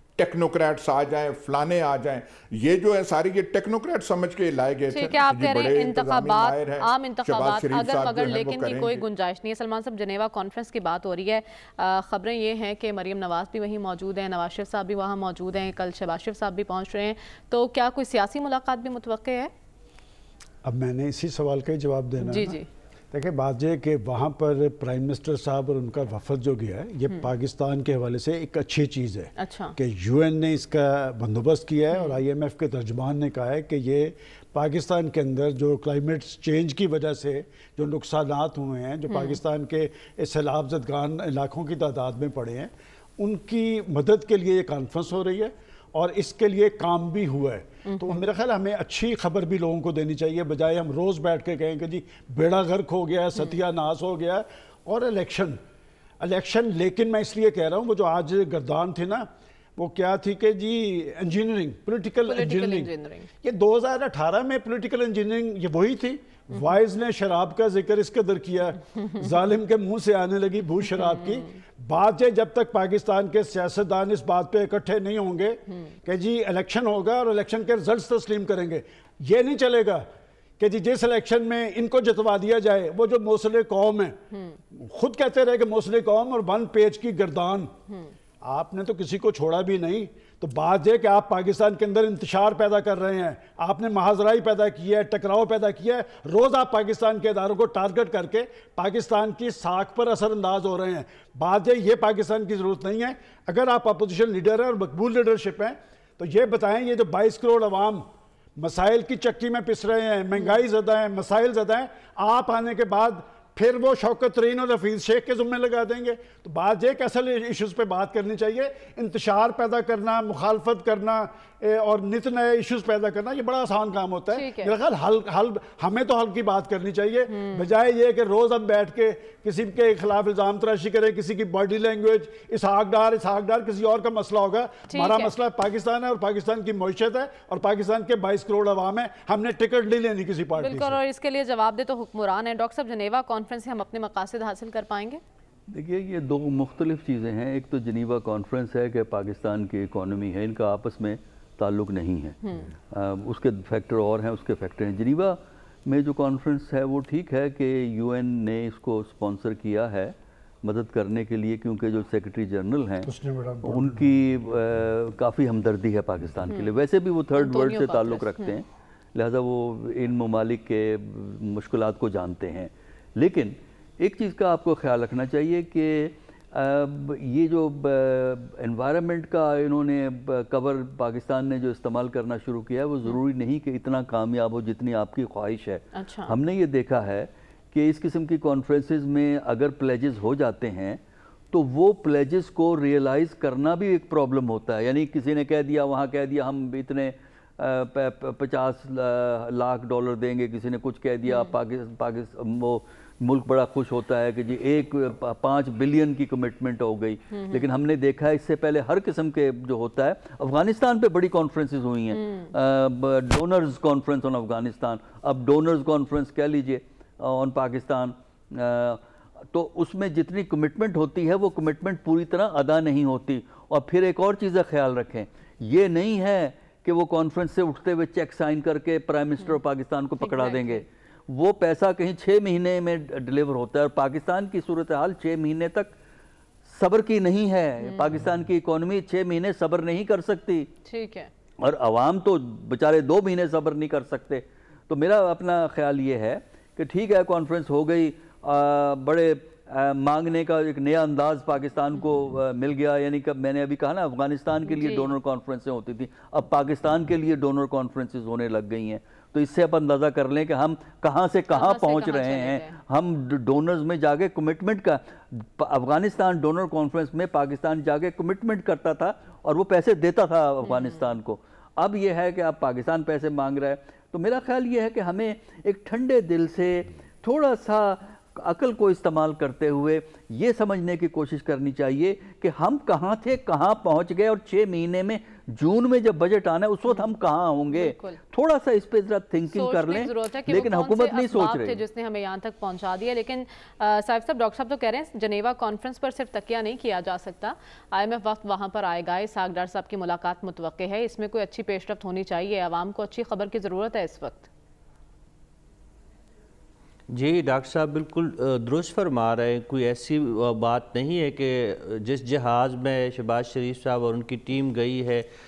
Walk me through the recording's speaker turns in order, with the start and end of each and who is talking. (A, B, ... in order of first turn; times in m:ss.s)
0:00.2-0:09.0 A
0:04.9-0:19.5 B
0:20.6-0:22.6 C
0:22.2-0:22.6 B
0:23.1-0:55.6 C
0:29.4-0:29.7 B
0:31.9-0:32.2 B
0:39.1-0:39.4 B
0:47.8-0:48.2 B
0:56.2-1:02.9 C
1:02.2-1:03.3 B
1:03.4-1:20.0 C
1:11.0-1:11.3 B
1:20.6-1:24.2 C
1:24.3-1:24.6 B
1:24.7-1:27.7 C
1:28.4-1:48.0 C
1:48.6-2:21.0 C
2:04.3-2:04.7 B
2:07.3-2:07.7 B
2:14.9-2:15.3 B
2:20.6-2:25.2 B
2:25.7-2:32.4 D
2:32.4-2:32.7 B
2:32.9-3:11.0 D
2:43.0-2:43.9 C
2:46.5-2:46.7 B
2:47.3-2:48.6 B
3:05.9-3:06.3 B
3:11.5-3:56.0 D
3:21.3-3:21.5 B
3:27.3-3:27.6 B
3:32.1-3:32.5 B
3:50.2-3:50.8 B
3:56.6-4:00.7 D
3:57.8-3:58.1 B
4:00.8-4:01.3 B
4:01.6-4:51.8 D
4:14.7-4:15.1 B
4:21.5-4:22.7 B
4:30.6-4:31.0 B
4:47.7-4:48.2 B
4:49.5-5:04.5 B
5:07.1-5:15.2 E